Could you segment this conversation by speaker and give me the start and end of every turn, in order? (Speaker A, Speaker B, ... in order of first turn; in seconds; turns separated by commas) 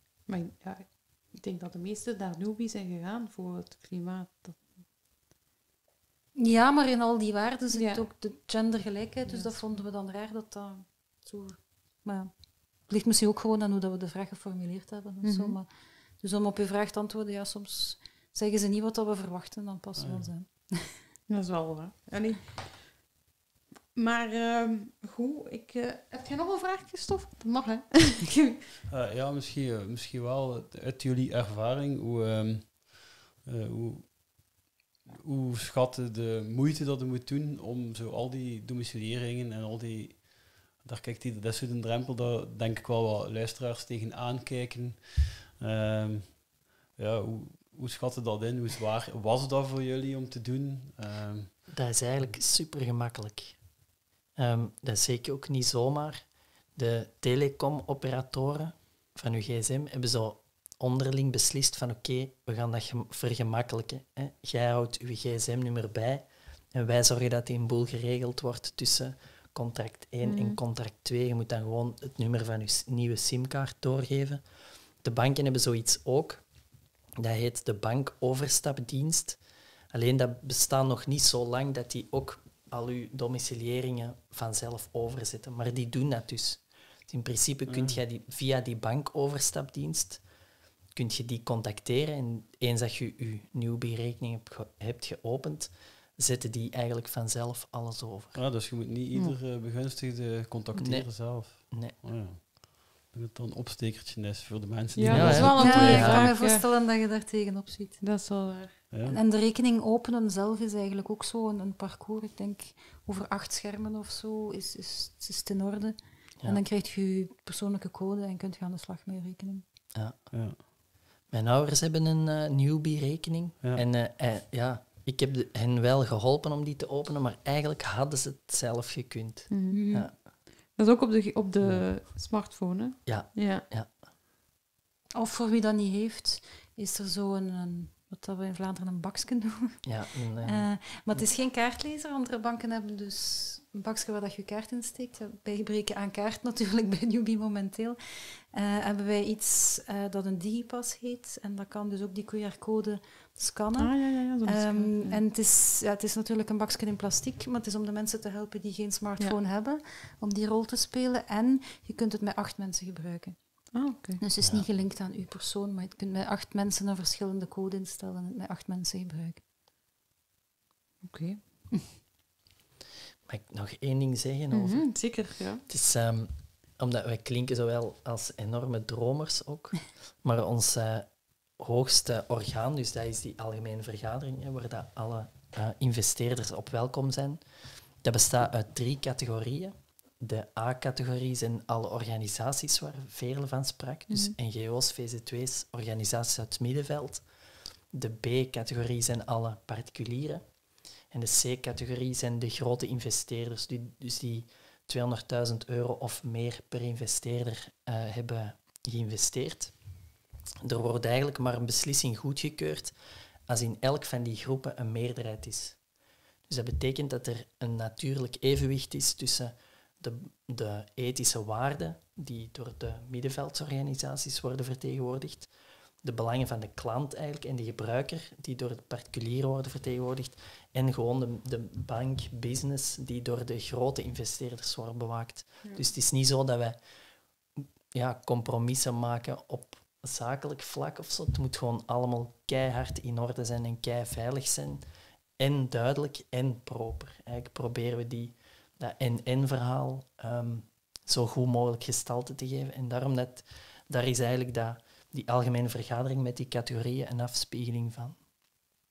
Speaker A: 0.3-4.7, Speaker B: 6.3-20.9, Speaker A: 7.7-8.0, Speaker A: 9.2-9.8, Speaker A: 15.2-15.6, Speaker C: 20.0-20.3, Speaker A: 21.3-22.7, Speaker A: 23.9-28.6, Speaker C: 28.9-34.4, Speaker C: 35.1-52.2, Speaker D: 51.7-53.6, Speaker D: 54.4-74.4, Speaker A: 70.2-70.6, Speaker D: 75.0-76.4, Speaker D: 77.2-79.4, Speaker D: 79.9-90.2, Speaker C: 87.7-88.0, Speaker D: 90.9-98.4, Speaker C: 98.3-106.3, Speaker D: 100.8-102.4, Speaker A: 104.9-106.6, Speaker D: 105.1-106.2, Speaker B: 105.5-108.0, Speaker A: 108.0-108.8, Speaker C: 108.9-109.2, Speaker B: 109.0-119.6, Speaker D: 119.9-120.2, Speaker C: 120.3-120.6, Speaker D: 121.3-130.1, Speaker A: 129.5-129.8, Speaker B: 129.7-130.1, Speaker A: 130.7-133.6, Speaker C: 131.6-131.9, Speaker D: 133.0-133.9, Speaker B: 135.1-163.4, Speaker D: 139.8-140.8, Speaker A: 153.8-155.2, Speaker A: 163.7-164.2, Speaker B: 164.2-169.4, Speaker A: 171.0-171.4, Speaker D: 173.2-187.4, Speaker A: 174.5-175.6, Speaker D: 188.0-197.3, Speaker A: 194.1-194.3, Speaker D: 197.9-200.5, Speaker D: 201.1-209.7, Speaker D: 210.6-212.9, Speaker D: 213.5-215.8, Speaker D: 216.5-225.5, Speaker D: 226.0-236.8, Speaker D: 237.9-244.8, Speaker D: 245.4-258.2